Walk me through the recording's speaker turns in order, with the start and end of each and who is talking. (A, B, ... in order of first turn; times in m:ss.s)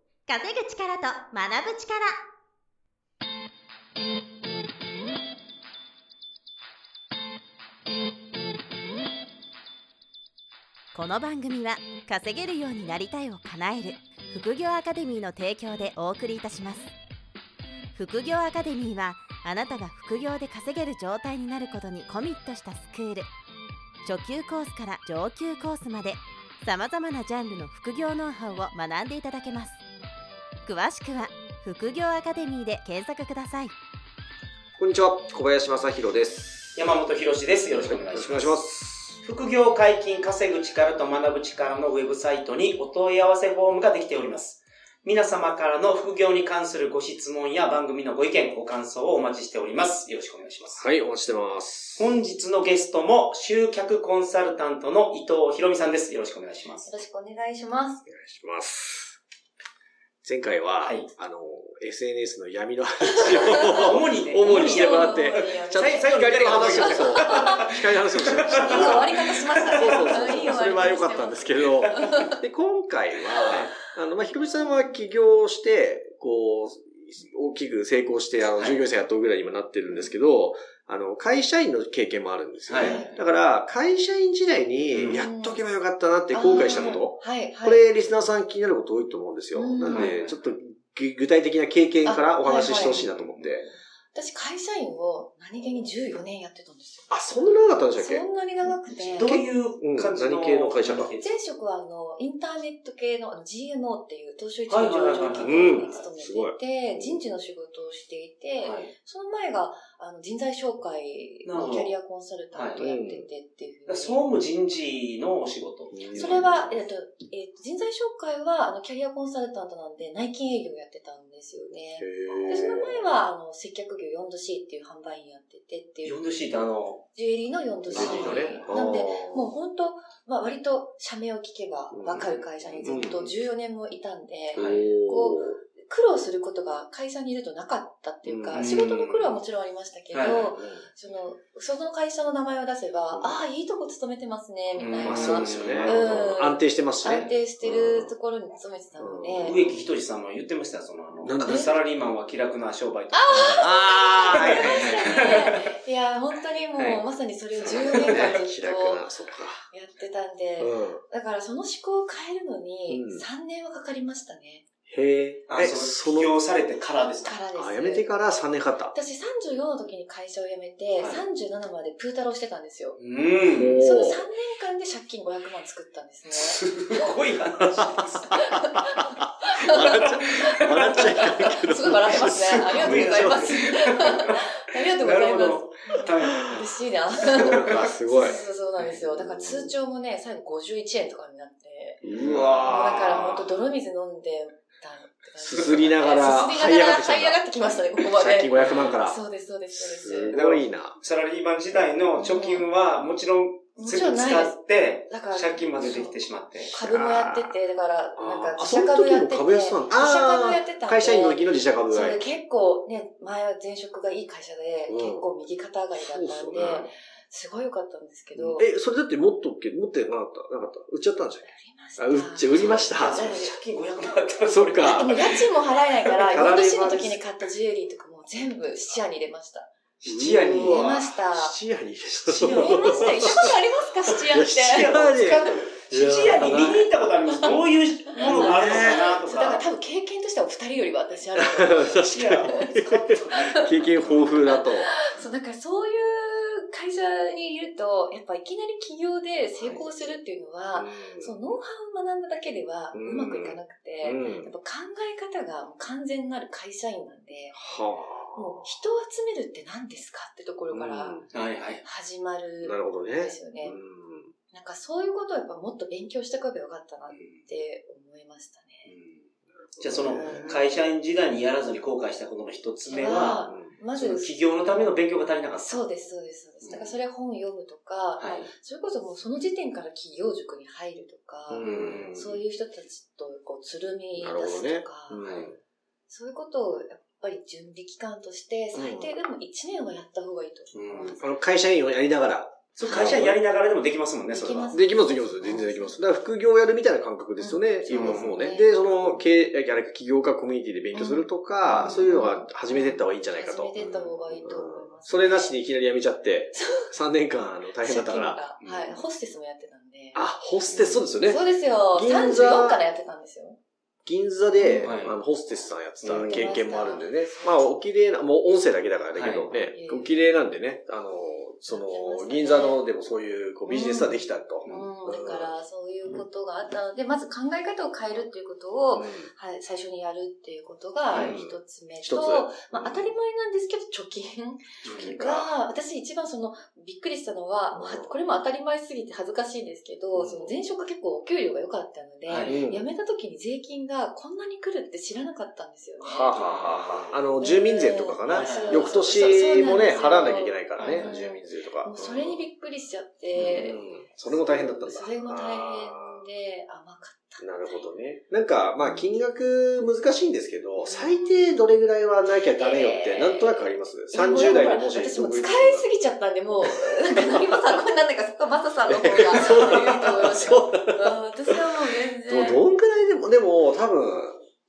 0:00.3-0:02.2 A
0:10.9-0:16.9 A
0:18.0-0:23.3 A
0:24.0-0:29.8 A
0:30.7-0:33.7 A
0:34.8-0:36.8 B
0:36.8-0:38.6 C
0:37.7-0:39.2 B
0:39.2-0:50.9 C
0:50.8-0:52.2 B
0:52.0-0:56.9 C
0:56.8-0:58.0 D
0:58.1-0:59.2 B
1:00.2-1:33.7 B
1:00.8-1:01.1 C
1:03.2-1:07.8 D
1:03.7-1:10.4 C
1:08.5-1:12.4 D
1:13.4-1:13.7 C
1:14.4-1:14.7 D
1:18.6-1:18.8 C
1:22.7-1:23.2 C
1:22.8-1:23.1 D
1:24.9-1:25.2 C
1:25.2-1:25.6 D
1:26.3-1:27.8 D
1:26.5-1:27.0 C
1:29.5-1:30.2 D
1:29.9-1:30.4 C
1:32.0-1:33.0 D
1:32.6-1:33.6 C
1:34.1-1:37.2 D
1:37.1-1:38.3 B
1:38.0-1:39.4 D
1:39.0-1:41.3 C
1:39.2-1:41.1 B
1:41.2-1:54.2 D
1:44.7-1:46.1 C
1:45.3-1:47.2 B
1:48.6-1:48.9 C
1:51.4-1:51.9 C
1:52.5-1:52.8 C
1:52.8-1:53.3 B
1:53.9-1:56.8 C
1:55.9-1:56.7 B
1:56.1-2:06.2 D
2:02.0-2:03.1 B
2:06.0-2:07.0 C
2:07.1-2:29.6 D
2:07.9-2:09.5 B
2:07.9-2:08.8 C
2:11.9-2:13.3 B
2:14.5-2:15.6 B
2:14.6-2:14.9 C
2:18.3-2:18.9 B
2:18.5-2:19.4 C
2:20.1-2:20.6 C
2:20.5-2:20.9 B
2:23.1-2:23.4 B
2:24.8-2:26.3 C
2:25.0-2:28.2 B
2:27.0-2:27.3 C
2:29.0-2:29.8 B
2:29.4-2:33.7 C
2:31.2-2:31.7 B
2:31.4-2:31.7 D
2:33.1-2:39.1 D
2:33.3-2:35.5 B
2:34.3-2:35.6 C
2:36.8-2:37.0 C
2:37.6-2:39.6 B
2:37.9-2:38.4 C
2:39.7-2:44.6 D
2:40.6-2:41.0 B
2:42.9-2:43.2 B
2:44.9-2:46.4 B
2:45.5-2:47.4 C
2:47.2-2:48.3 D
2:47.6-2:49.0 B
2:48.9-2:53.0 D
2:51.0-2:51.2 C
2:53.0-2:53.8 C
2:53.5-2:54.2 B
2:53.8-2:56.6 D
2:56.3-2:58.3 C
2:57.8-3:03.6 B
2:58.3-3:12.1 D
2:59.8-3:01.2 C
3:02.2-3:06.6 C
3:06.2-3:06.7 B
3:07.2-3:08.4 B
3:07.4-3:07.9 C
3:08.9-3:09.8 B
3:12.0-3:13.6 B
3:12.2-3:13.4 C
3:12.7-3:20.3 D
3:15.4-3:16.2 C
3:15.5-3:17.4 B
3:18.1-3:19.2 B
3:18.6-3:19.0 C
3:19.8-3:21.0 B
3:20.3-3:26.7 C
3:22.2-3:22.7 D
3:23.8-3:26.1 D
3:26.7-3:27.6 B
3:26.7-3:38.7 D
3:28.2-3:32.2 B
3:34.9-3:35.3 B
3:36.0-3:36.9 B
3:38.5-3:43.3 B
3:41.4-3:43.6 D
3:42.5-3:45.4 C
3:44.5-3:45.2 B
3:44.8-3:49.7 D
3:46.2-3:47.2 B
3:50.0-3:50.9 C
3:50.1-3:56.9 B
3:50.6-3:51.6 D
3:52.3-3:53.6 C
3:52.5-3:54.9 D
3:54.6-3:59.6 C
3:58.1-4:02.7 D
3:58.2-3:59.1 B
4:01.4-4:04.9 B
4:02.1-4:04.5 C
4:03.3-4:03.7 D
4:04.4-4:17.6 D
4:09.6-4:09.8 C
4:10.8-4:11.3 B
4:12.9-4:14.5 B
4:17.5-4:18.7 B
4:18.3-4:21.2 D
4:20.7-4:21.3 B
4:21.3-4:21.8 C
4:21.8-4:23.8 D
4:22.6-4:24.3 B
4:24.5-4:28.9 D
4:27.1-4:27.4 C
4:28.9-4:29.2 C
4:29.6-4:30.6 B
4:29.8-4:35.9 C
4:30.1-4:30.8 D
4:32.9-4:35.0 D
4:33.4-4:33.8 B
4:35.6-4:45.4 D
4:36.6-4:37.0 C
4:38.2-4:38.5 C
4:41.5-4:42.1 B
4:41.6-4:42.4 C
4:44.2-4:45.6 B
4:45.2-4:45.5 C
4:46.1-4:51.3 D
4:48.7-4:49.2 B
4:50.7-4:51.2 C
4:51.2-4:53.4 B
4:52.8-4:54.8 C
4:52.8-4:53.3 D
4:54.3-4:56.0 D
4:54.7-5:03.8 B
4:57.4-4:58.8 D
4:57.9-4:58.6 C
5:00.9-5:05.6 D
5:01.7-5:02.0 C
5:03.8-5:04.4 C
5:04.4-5:08.4 B
5:06.5-5:06.9 D
5:07.8-5:10.2 D
5:08.6-5:09.0 C
5:10.1-5:12.8 B
5:10.7-5:11.0 C
5:11.2-5:13.6 D
5:14.1-5:25.5 B
5:14.6-5:15.0 D
5:14.8-5:15.2 C
5:16.0-5:16.4 C
5:16.1-5:17.8 D
5:19.2-5:19.5 C
5:19.7-5:20.2 D
5:21.7-5:22.8 D
5:23.7-5:46.4 D
5:28.9-5:29.3 B
5:31.1-5:31.4 C
5:31.1-5:33.2 B
5:34.8-5:35.1 C
5:34.9-5:35.5 B
5:37.7-5:38.2 B
5:40.2-5:40.5 C
5:42.3-5:42.6 C
5:42.4-5:42.9 B
5:46.0-5:52.4 B
5:46.3-5:47.2 C
5:47.4-5:57.9 D
5:48.3-5:48.9 C
5:50.8-5:51.1 C
5:53.4-5:53.7 C
5:53.4-5:56.3 B
5:57.4-6:05.9 B
5:58.8-5:59.1 D
6:00.8-6:01.6 D
6:02.2-6:12.7 D
6:06.6-6:07.6 B
6:08.9-6:14.4 B